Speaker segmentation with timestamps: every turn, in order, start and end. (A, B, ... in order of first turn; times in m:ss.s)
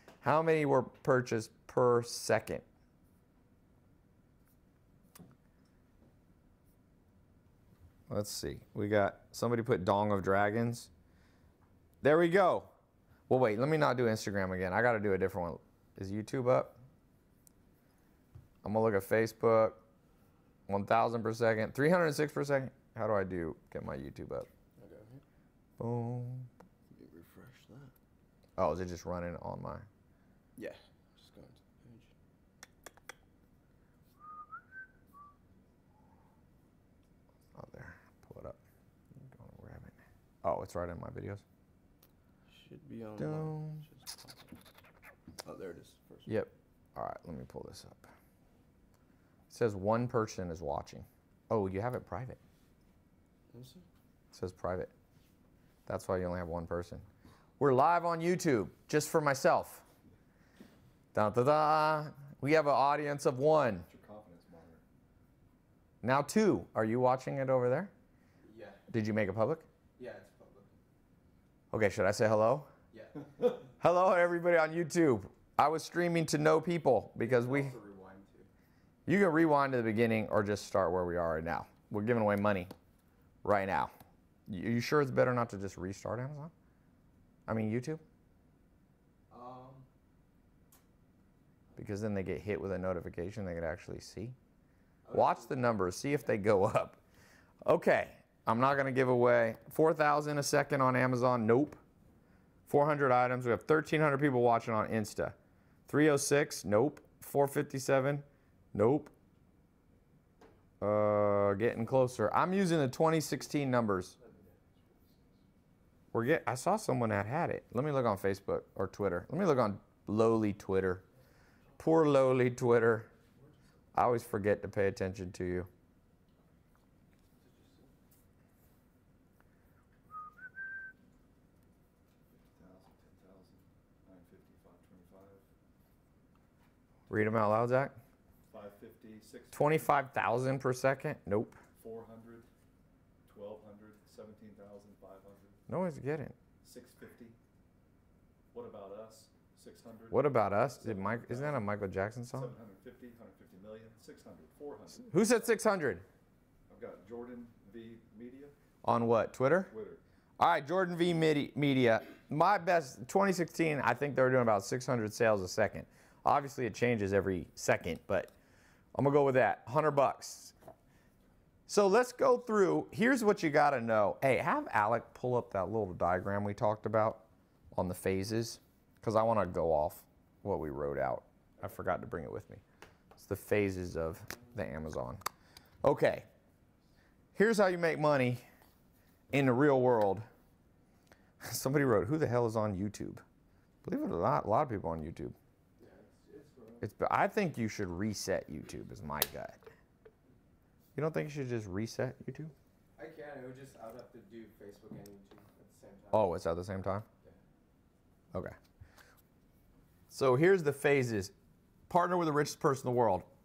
0:00.2-0:02.6 A
0:08.1-0:10.9 A
0:12.0-0:12.7 A
0:13.3-0:16.8 A
0:18.6-0:19.8 A
0:20.7-0:24.5 A
0:24.8-0:25.2 B
0:25.8-0:26.5 A
0:26.9-0:27.9 B
0:28.6-0:29.8 A
0:30.6-0:32.1 B
0:37.5-0:38.6 A
0:39.3-0:41.4 A
0:42.5-0:44.3 B
0:43.2-0:43.8 A
0:45.4-0:46.3 B
0:46.3-0:48.1 A
0:49.5-0:52.4 A
0:53.5-0:53.8 B
0:54.3-0:54.9 A
0:55.8-0:57.0 A
0:57.6-0:59.8 A
1:01.1-1:03.8 A
1:03.8-1:04.8 C
1:06.0-1:07.9 A
1:08.4-1:08.8 B
1:08.9-1:09.6 A
1:10.0-1:10.7 B
1:11.7-1:12.7 A
1:12.9-1:13.2 B
1:13.8-1:17.8 A
1:17.2-1:18.5 B
1:19.0-1:22.7 A
1:23.4-1:23.9 A
1:24.5-1:26.5 A
1:27.5-1:28.0 A
1:29.3-1:29.8 B
1:31.8-1:34.4 A
1:35.0-1:35.7 B
1:35.1-1:37.0 A
1:37.6-1:41.8 A
1:42.7-1:45.3 A
1:45.9-1:49.1 A
1:50.8-1:54.2 A
1:56.1-2:01.0 A
2:01.8-2:03.1 A
2:03.9-2:05.7 A
2:07.4-2:07.8 B
2:12.3-2:15.4 C
2:17.1-2:18.0 A
2:18.5-2:19.6 C
2:19.5-2:21.6 A
2:21.8-2:22.5 C
2:23.2-2:25.6 C
2:25.7-2:26.3 A
2:26.6-2:27.4 C
2:28.5-2:31.7 C
2:30.1-2:32.5 A
2:32.3-2:35.1 C
2:35.1-2:36.0 A
2:36.7-2:38.5 C
2:38.8-2:39.7 A
2:39.7-2:40.0 C
2:40.4-2:48.3 A
2:48.9-2:50.5 A
2:51.7-3:02.6 A
3:03.2-3:05.2 A
3:05.8-3:06.3 A
3:07.3-3:08.4 A
3:09.3-3:10.3 A
3:11.4-3:13.2 A
3:13.8-3:15.3 A
3:15.8-3:16.8 B
3:16.8-3:19.6 A
3:20.9-3:22.5 A
3:23.0-3:26.3 B
3:26.1-3:27.0 A
3:30.1-3:31.3 A
3:31.9-3:33.2 A